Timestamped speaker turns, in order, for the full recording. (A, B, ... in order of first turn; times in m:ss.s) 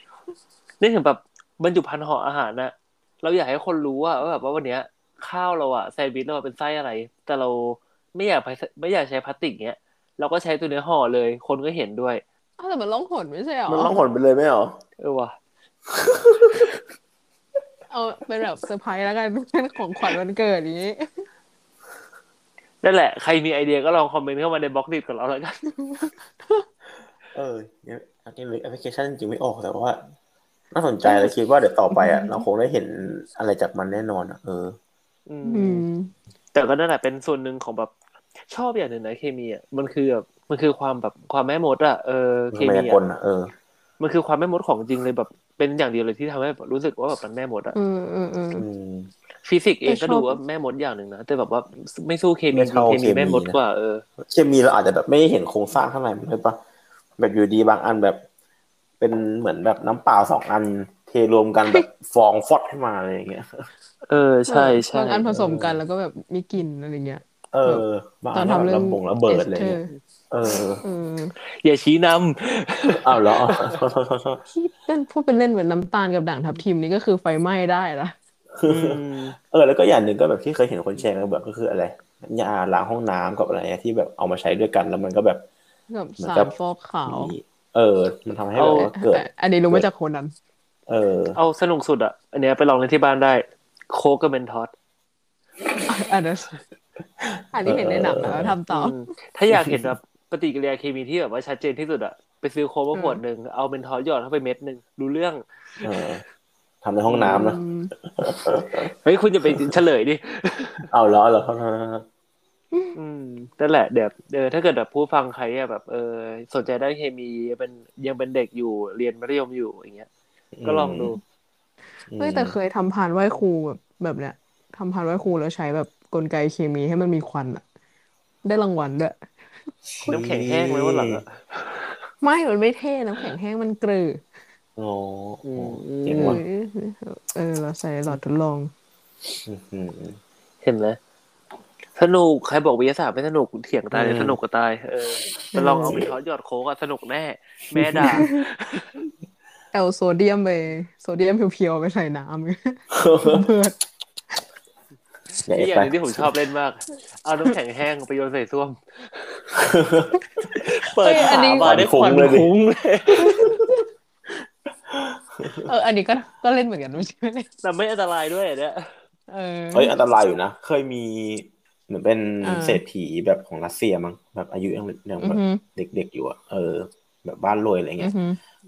0:00.8-0:12.2 A
0:12.6-0:14.0 B
0:13.7-0:14.8 C
0:15.0-0:15.4 A
0:15.9-0:16.7 C
0:17.9-0:21.3 B
0:22.8-0:25.6 A
0:25.8-0:26.6 B
0:27.3-0:30.0 C
0:30.7-0:34.8 C
0:31.0-0:31.3 B
0:31.9-0:32.4 B
0:35.3-0:35.8 A
0:35.4-0:36.1 B
0:36.5-0:37.9 A
0:38.5-0:43.0 A
0:42.5-0:43.5 C
0:44.0-0:47.8 A
0:47.8-0:48.6 B
0:48.6-0:49.1 C
0:49.4-0:54.0 A
0:49.9-0:50.4 B
0:52.5-0:53.6 C
0:54.2-0:56.6 C
0:57.2-0:58.2 C
0:59.0-1:03.7 C
1:04.1-1:05.3 A
1:04.5-1:09.9 B
1:05.3-1:05.8 C
1:07.5-1:09.8 C
1:10.3-1:10.8 C
1:10.8-1:11.4 B
1:11.5-1:13.8 A
1:13.0-1:14.4 C
1:14.5-1:18.1 B
1:18.6-1:25.4 C
1:18.6-1:19.4 A
1:25.9-1:27.3 B
1:26.2-1:26.5 C
1:27.1-1:29.9 C
1:28.6-1:28.9 A
1:28.7-1:30.3 B
1:30.9-1:31.4 C
1:31.4-1:34.7 A
1:35.9-1:36.6 B
1:37.5-1:39.0 B
1:37.6-1:38.6 C
1:38.7-1:45.4 A
1:39.5-1:39.9 C
1:42.9-1:43.2 B
1:45.8-1:46.2 C
1:46.8-1:47.6 C
1:47.1-1:47.4 A
1:47.2-1:47.9 B
1:48.2-1:48.9 C
1:49.0-1:50.9 A
1:50.9-1:52.1 C
1:53.0-2:00.1 A
2:00.5-2:01.1 C
2:00.6-2:01.2 A
2:02.1-2:02.6 C
2:02.2-2:07.6 B
2:08.4-2:09.2 B
2:10.0-2:11.2 C
2:10.1-2:12.0 A
2:12.2-2:14.2 B
2:14.8-2:16.4 C
2:15.4-2:16.4 A
2:16.2-2:18.7 B
2:19.4-2:20.2 C
2:20.6-2:21.0 A
2:22.0-2:28.9 A
2:23.9-2:24.4 C
2:25.5-2:26.0 B
2:27.7-2:28.3 C
2:28.1-2:28.4 B
2:29.7-2:33.8 B
2:32.9-2:33.5 C
2:35.4-2:36.3 C
2:35.5-2:39.5 A
2:39.5-2:40.2 C
2:40.5-2:43.4 A
2:41.0-2:42.2 B
2:41.6-2:42.5 C
2:43.2-2:43.7 C
2:43.2-2:43.6 B
2:44.9-2:45.7 C
2:45.6-2:47.5 B
2:47.6-2:48.9 A
2:49.3-2:49.9 B
2:49.7-2:58.1 C
2:52.4-2:52.8 B
2:55.2-2:55.6 B
2:58.0-2:58.4 B